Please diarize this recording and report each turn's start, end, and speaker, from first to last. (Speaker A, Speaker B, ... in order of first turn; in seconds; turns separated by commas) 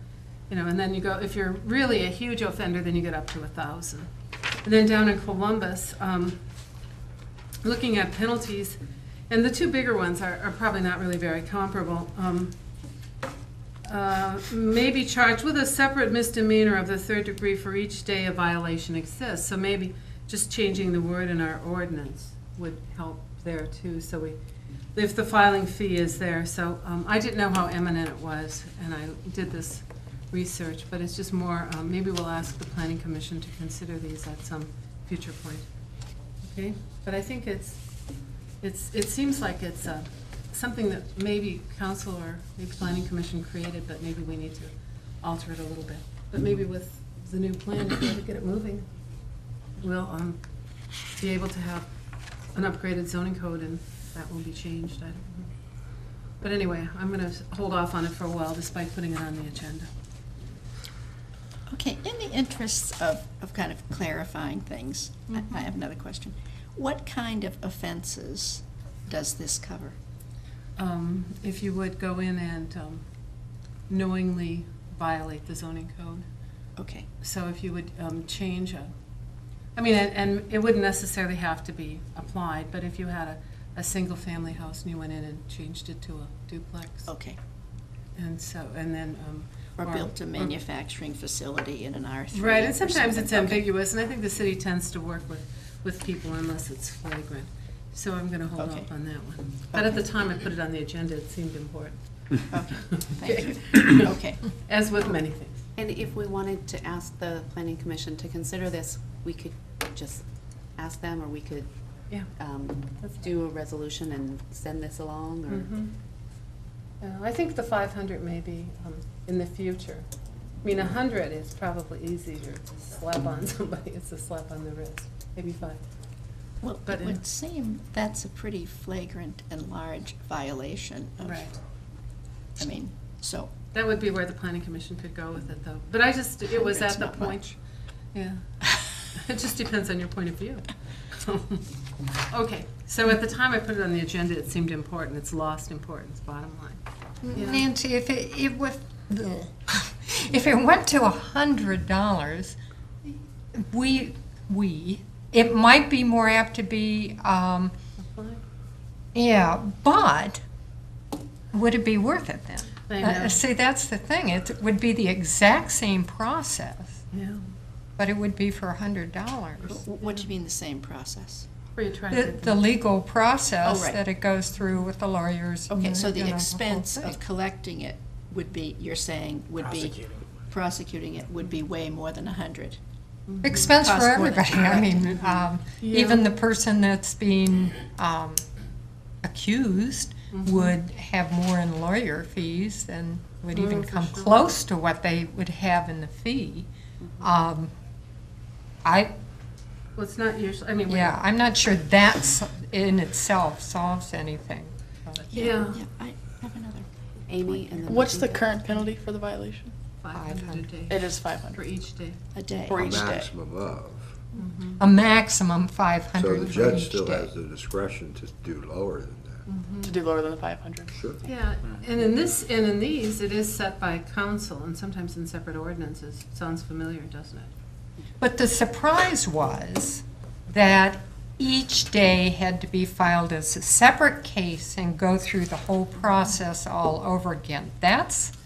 Speaker A: 0.5-4.1, Speaker A: 4.6-6.4, Speaker A: 7.6-12.6, Speaker A: 13.8-24.4, Speaker A: 24.9-35.7, Speaker A: 36.4-37.8, Speaker A: 38.6-48.9, Speaker A: 49.8-50.4, Speaker A: 51.2-51.9, Speaker A: 52.5-55.5, Speaker A: 56.4-59.9, Speaker B: 61.7-70.0, Speaker A: 65.3-65.6, Speaker A: 70.8-73.0, Speaker A: 73.9-76.2, Speaker B: 76.8-77.1, Speaker A: 77.2-78.9, Speaker A: 79.8-87.1, Speaker B: 87.1-87.4, Speaker A: 88.2-90.5, Speaker B: 89.8-93.7, Speaker A: 92.3-102.0, Speaker B: 98.6-98.9, Speaker B: 102.5-104.5, Speaker A: 102.8-105.6, Speaker C: 105.8-110.2, Speaker C: 110.8-111.7, Speaker C: 112.3-115.7, Speaker A: 115.5-115.9, Speaker A: 117.0-120.1, Speaker A: 120.6-125.8, Speaker B: 126.6-131.4, Speaker A: 126.9-127.2, Speaker A: 131.2-131.6, Speaker B: 132.6-133.5, Speaker A: 133.7-137.6, Speaker B: 136.5-137.4, Speaker A: 138.1-141.7, Speaker A: 142.2-146.8, Speaker A: 147.3-147.6, Speaker D: 147.3-157.7, Speaker A: 158.0-158.4, Speaker D: 159.2-160.4, Speaker D: 161.5-167.0, Speaker A: 162.9-163.4, Speaker A: 167.1-167.4, Speaker D: 168.0-169.8, Speaker B: 169.7-171.5, Speaker A: 170.0-170.3, Speaker A: 171.8-172.7, Speaker D: 172.1-177.2, Speaker B: 173.7-174.0, Speaker B: 175.7-182.8, Speaker A: 183.3-183.7, Speaker D: 183.4-188.4, Speaker B: 183.8-185.2, Speaker A: 185.8-186.3, Speaker D: 189.2-196.7, Speaker A: 190.3-190.7, Speaker A: 193.5-194.5, Speaker D: 197.2-197.7, Speaker D: 198.8-199.1, Speaker A: 200.0-201.2, Speaker D: 200.9-205.4, Speaker A: 205.2-205.8, Speaker B: 205.3-206.9, Speaker C: 207.3-208.6, Speaker B: 207.4-208.0, Speaker E: 207.9-209.7, Speaker A: 210.0-212.2, Speaker D: 210.1-210.7, Speaker E: 210.9-211.7, Speaker B: 212.3-213.0, Speaker E: 212.7-213.3, Speaker F: 212.8-214.1, Speaker A: 214.3-214.8, Speaker D: 214.8-217.3, Speaker F: 216.1-219.4, Speaker A: 219.5-220.0, Speaker E: 219.8-220.9, Speaker F: 220.9-221.2, Speaker A: 221.2-227.5, Speaker D: 228.2-238.3